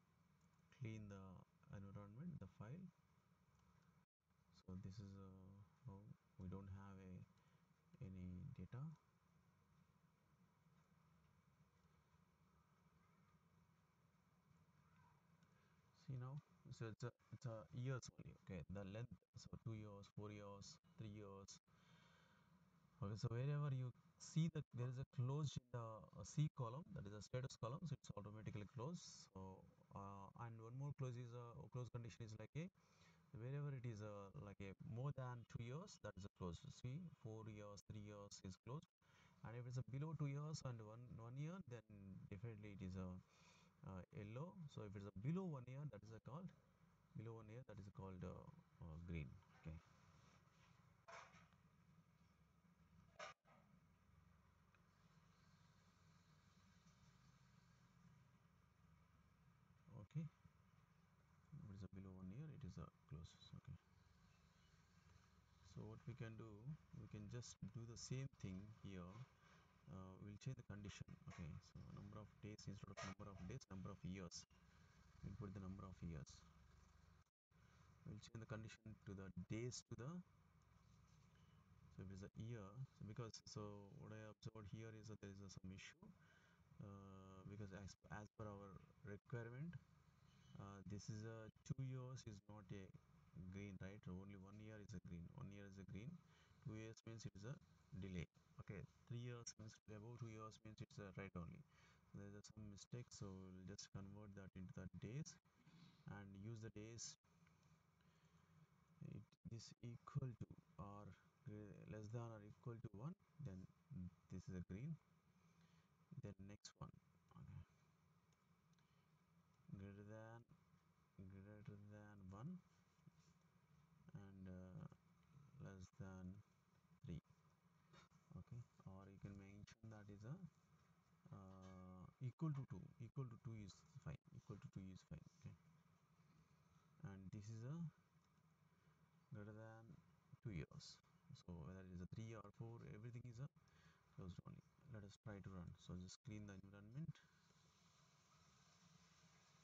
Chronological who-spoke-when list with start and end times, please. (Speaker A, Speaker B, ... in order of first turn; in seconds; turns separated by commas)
Speaker A: 0.7-2.9, Speaker A: 4.5-7.3, Speaker A: 8.0-9.0, Speaker A: 15.9-21.6, Speaker A: 23.0-32.7, Speaker A: 33.3-38.9, Speaker A: 39.4-46.5, Speaker A: 47.1-49.8, Speaker A: 59.9-60.3, Speaker A: 61.5-63.8, Speaker A: 65.6-69.3, Speaker A: 69.9-74.5, Speaker A: 75.2-76.5, Speaker A: 78.0-80.2, Speaker A: 81.9-86.1, Speaker A: 86.8-89.8, Speaker A: 90.5-105.4, Speaker A: 106.1-107.2, Speaker A: 109.0-115.0, Speaker A: 116.1-117.7, Speaker A: 119.7-120.5, Speaker A: 121.2-122.6, Speaker A: 124.1-125.0, Speaker A: 125.5-126.5, Speaker A: 128.3-130.5, Speaker A: 131.3-135.6, Speaker A: 137.0-137.9, Speaker A: 139.3-143.5, Speaker A: 144.2-147.2